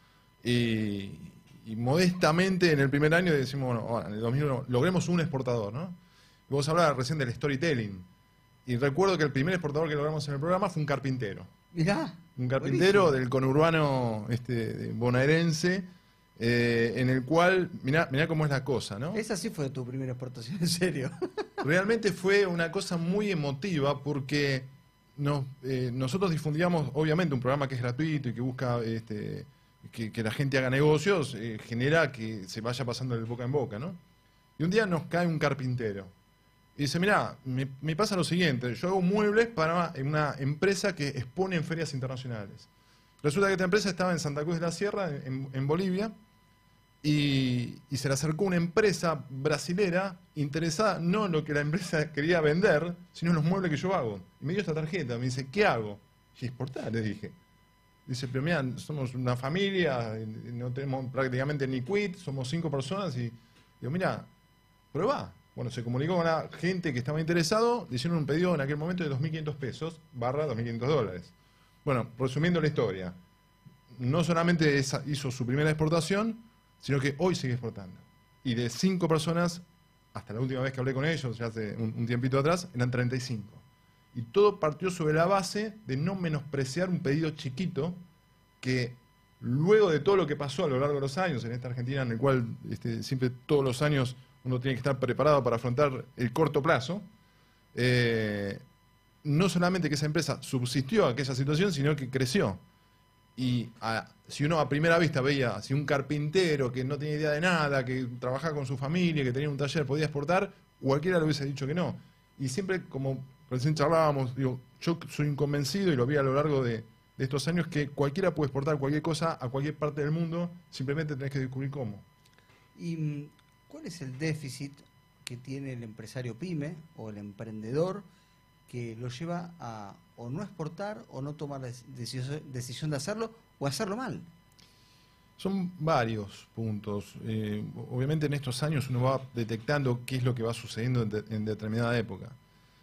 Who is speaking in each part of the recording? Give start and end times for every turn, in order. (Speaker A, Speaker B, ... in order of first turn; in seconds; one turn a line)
Speaker A: 0.4-6.0
Speaker A: 6.5-8.1
Speaker A: 8.7-11.5
Speaker B: 11.7-13.1
Speaker A: 12.4-15.9
Speaker A: 16.4-19.2
Speaker B: 19.1-21.1
Speaker A: 21.6-34.0
Speaker A: 34.6-36.1
Speaker A: 36.8-42.7
Speaker A: 43.2-46.1
Speaker A: 47.0-57.4
Speaker A: 58.1-64.3
Speaker A: 64.9-71.3
Speaker A: 71.8-73.2
Speaker A: 73.9-79.6
Speaker A: 80.1-83.6
Speaker A: 84.1-88.0
Speaker A: 88.6-97.1
Speaker A: 97.7-98.6
Speaker A: 99.2-102.6
Speaker A: 103.4-122.0
Speaker B: 122.8-128.1
Speaker B: 128.7-134.3
Speaker A: 135.4-142.4